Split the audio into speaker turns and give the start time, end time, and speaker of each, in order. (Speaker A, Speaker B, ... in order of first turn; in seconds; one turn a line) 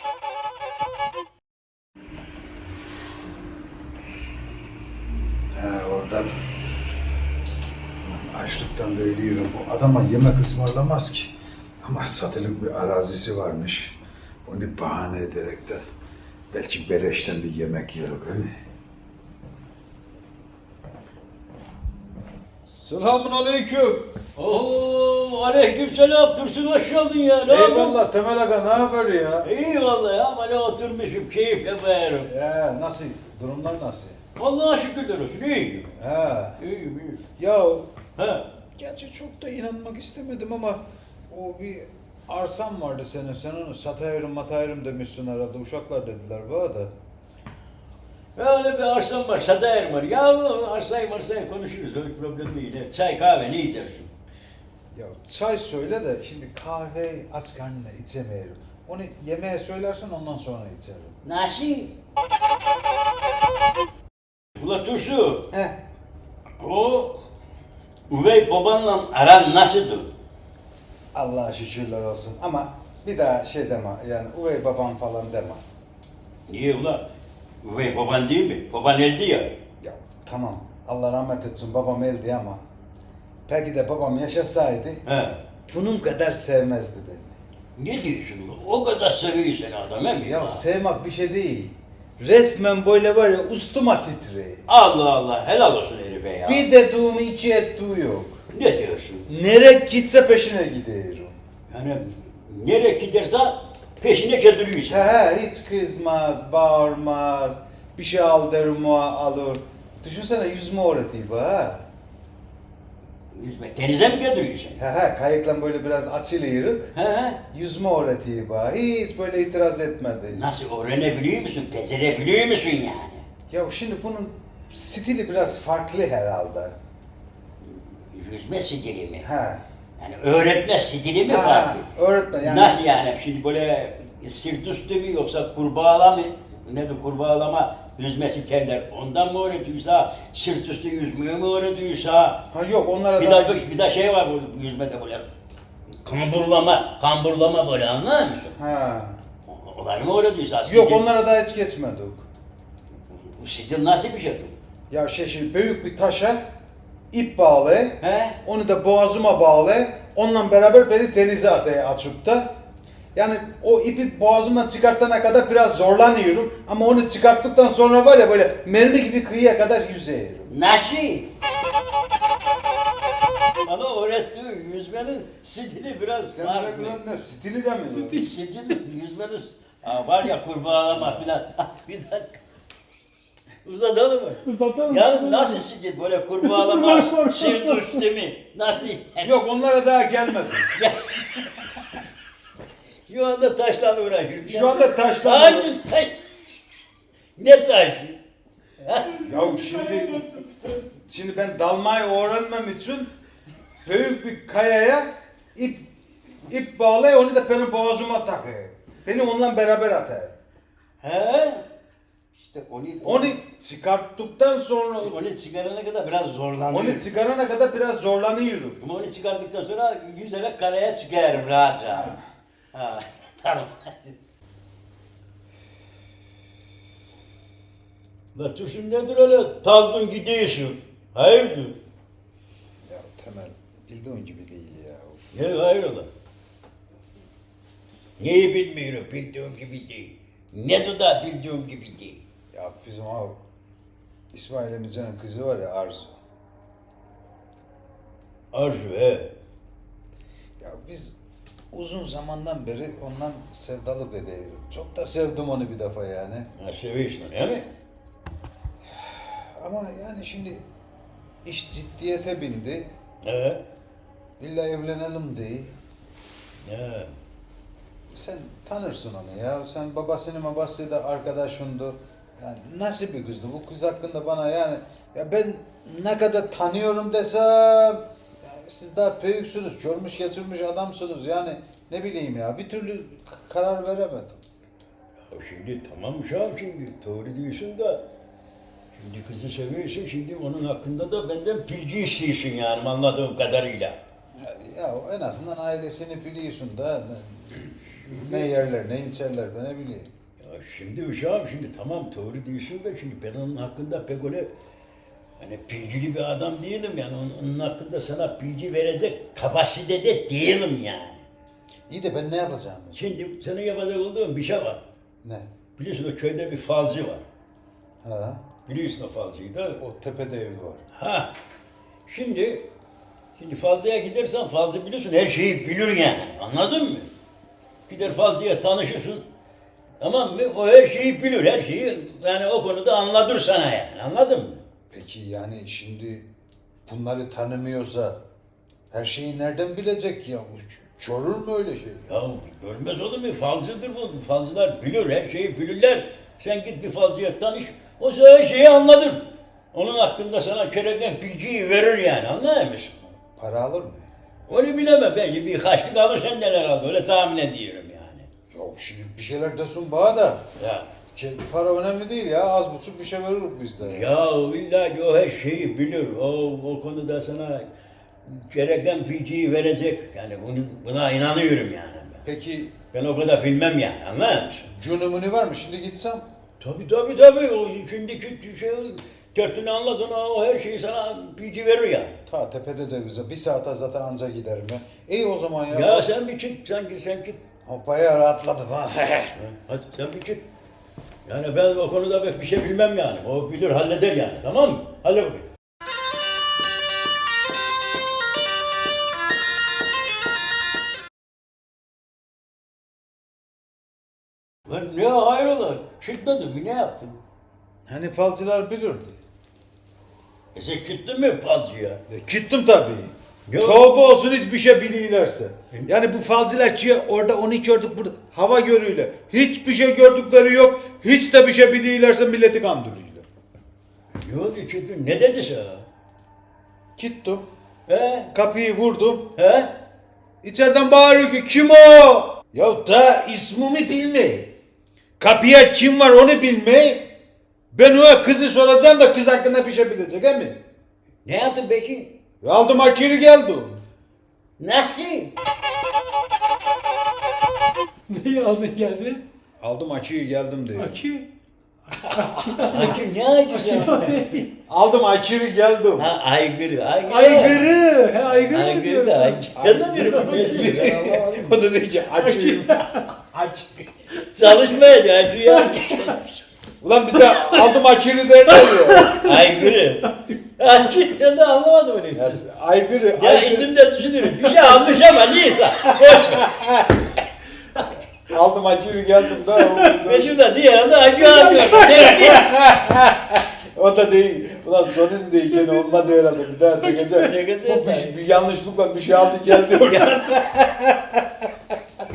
Speaker A: 5.5-6.4
Speaker A: 8.0-15.8
Speaker A: 16.5-18.5
Speaker A: 22.7-24.1
Speaker B: 24.4-28.0
Speaker A: 27.5-29.5
Speaker B: 29.4-32.3
Speaker A: 32.3-34.2
Speaker B: 34.4-35.9
Speaker A: 36.0-36.6
Speaker B: 36.6-37.2
Speaker A: 37.4-37.9
Speaker B: 38.2-38.5
Speaker A: 38.8-46.9
Speaker B: 48.4-54.1
Speaker A: 54.9-61.1
Speaker B: 61.2-61.9
Speaker B: 64.6-65.5
Speaker A: 65.5-65.8
Speaker B: 66.6-67.2
Speaker B: 68.1-70.1
Speaker A: 71.1-75.6
Speaker B: 76.5-77.1
Speaker B: 77.6-79.5
Speaker A: 79.8-82.6
Speaker A: 83.5-85.0
Speaker B: 85.0-85.4
Speaker A: 85.7-87.3
Speaker B: 87.8-90.6
Speaker A: 90.2-94.7
Speaker B: 94.7-96.7
Speaker A: 96.5-98.4
Speaker B: 98.5-99.2
Speaker A: 99.3-101.4
Speaker B: 101.7-105.1
Speaker A: 104.9-111.9
Speaker B: 113.3-114.8
Speaker A: 114.8-116.9
Speaker B: 117.0-117.4
Speaker A: 117.5-120.5
Speaker B: 120.3-123.2
Speaker A: 123.5-126.7
Speaker B: 128.0-129.3
Speaker A: 129.2-129.6
Speaker B: 130.0-131.9
Speaker A: 131.2-132.8
Speaker B: 132.4-142.4
Speaker A: 142.5-143.7
Speaker B: 143.2-145.3
Speaker B: 146.0-148.6
Speaker A: 148.6-149.2
Speaker B: 149.5-151.1
Speaker A: 150.7-152.2
Speaker B: 153.3-154.5
Speaker A: 154.9-156.4
Speaker A: 157.1-162.5
Speaker B: 158.0-158.4
Speaker A: 163.2-170.5
Speaker B: 170.5-171.3
Speaker B: 173.6-177.0
Speaker A: 176.3-178.2
Speaker B: 177.9-182.4
Speaker B: 183.6-189.3
Speaker C: 184.5-185.6
Speaker C: 186.6-187.8
Speaker A: 189.2-190.8
Speaker B: 190.7-191.5
Speaker B: 193.1-196.2
Speaker A: 194.5-195.7
Speaker B: 197.4-198.2
Speaker B: 198.8-199.2
Speaker A: 199.2-203.1
Speaker C: 200.2-200.7
Speaker A: 203.8-205.9
Speaker A: 206.5-210.3
Speaker B: 211.0-211.6
Speaker B: 212.4-213.4
Speaker A: 213.0-215.1
Speaker B: 214.9-217.0
Speaker A: 216.7-218.8
Speaker B: 218.8-222.2
Speaker A: 221.9-222.2
Speaker B: 222.7-224.1
Speaker B: 228.3-231.8
Speaker A: 232.8-235.4
Speaker B: 235.3-236.1
Speaker B: 238.2-242.2
Speaker A: 242.5-243.4
Speaker A: 244.3-246.2
Speaker B: 248.5-249.3
Speaker A: 250.6-251.2
Speaker A: 251.7-256.5
Speaker B: 256.6-257.7
Speaker A: 258.9-260.6
Speaker A: 261.4-262.9
Speaker B: 263.2-263.6
Speaker A: 264.4-265.7
Speaker B: 266.6-267.1
Speaker A: 268.1-284.4
Speaker B: 285.3-288.0
Speaker B: 288.9-294.0
Speaker A: 294.4-300.1
Speaker B: 297.9-298.5
Speaker B: 300.4-304.5
Speaker B: 305.4-311.2
Speaker A: 311.9-313.0
Speaker B: 312.9-314.8
Speaker B: 315.8-317.2
Speaker A: 318.0-318.4
Speaker B: 318.7-319.8
Speaker A: 319.8-320.8
Speaker B: 320.9-321.3
Speaker B: 322.1-322.7
Speaker B: 323.4-327.1
Speaker B: 327.9-329.2
Speaker B: 330.0-334.6
Speaker A: 334.9-336.3
Speaker A: 336.9-338.2
Speaker A: 338.9-342.1
Speaker B: 342.1-352.9
Speaker A: 353.0-354.1
Speaker B: 354.5-358.3
Speaker A: 358.5-360.4
Speaker B: 360.6-360.9
Speaker A: 361.1-364.1
Speaker B: 363.8-367.7
Speaker B: 368.2-372.2
Speaker A: 372.2-372.7
Speaker B: 372.9-374.7
Speaker A: 374.7-376.2
Speaker B: 376.6-382.1
Speaker A: 382.3-386.1
Speaker B: 385.7-387.4
Speaker A: 387.7-389.3
Speaker B: 389.4-390.4
Speaker B: 391.2-395.5
Speaker B: 404.7-407.2
Speaker A: 407.9-409.2
Speaker B: 410.5-412.0
Speaker A: 412.1-423.2
Speaker B: 413.5-413.9
Speaker B: 424.2-425.9
Speaker A: 427.0-427.4
Speaker B: 427.9-428.3
Speaker A: 428.3-429.3
Speaker B: 429.4-429.8
Speaker A: 430.4-434.5
Speaker A: 435.2-437.1
Speaker A: 437.7-440.6
Speaker B: 441.2-442.2
Speaker A: 442.4-443.8
Speaker B: 444.6-445.3
Speaker C: 448.1-449.2
Speaker A: 449.6-451.1
Speaker C: 450.8-451.3
Speaker C: 451.9-452.9
Speaker A: 452.1-452.6
Speaker B: 452.6-454.5
Speaker C: 453.6-454.5
Speaker A: 454.7-456.1
Speaker B: 456.0-461.4
Speaker C: 457.1-461.5
Speaker A: 459.6-463.7
Speaker C: 462.2-463.1
Speaker B: 464.1-466.4
Speaker A: 466.8-469.2
Speaker C: 467.4-467.6
Speaker C: 468.6-469.2
Speaker B: 469.1-472.4
Speaker A: 472.1-473.7
Speaker B: 473.2-476.5
Speaker A: 476.1-477.0
Speaker A: 478.3-480.3
Speaker B: 480.0-482.5
Speaker A: 481.5-491.5
Speaker B: 486.8-488.2
Speaker B: 489.7-490.4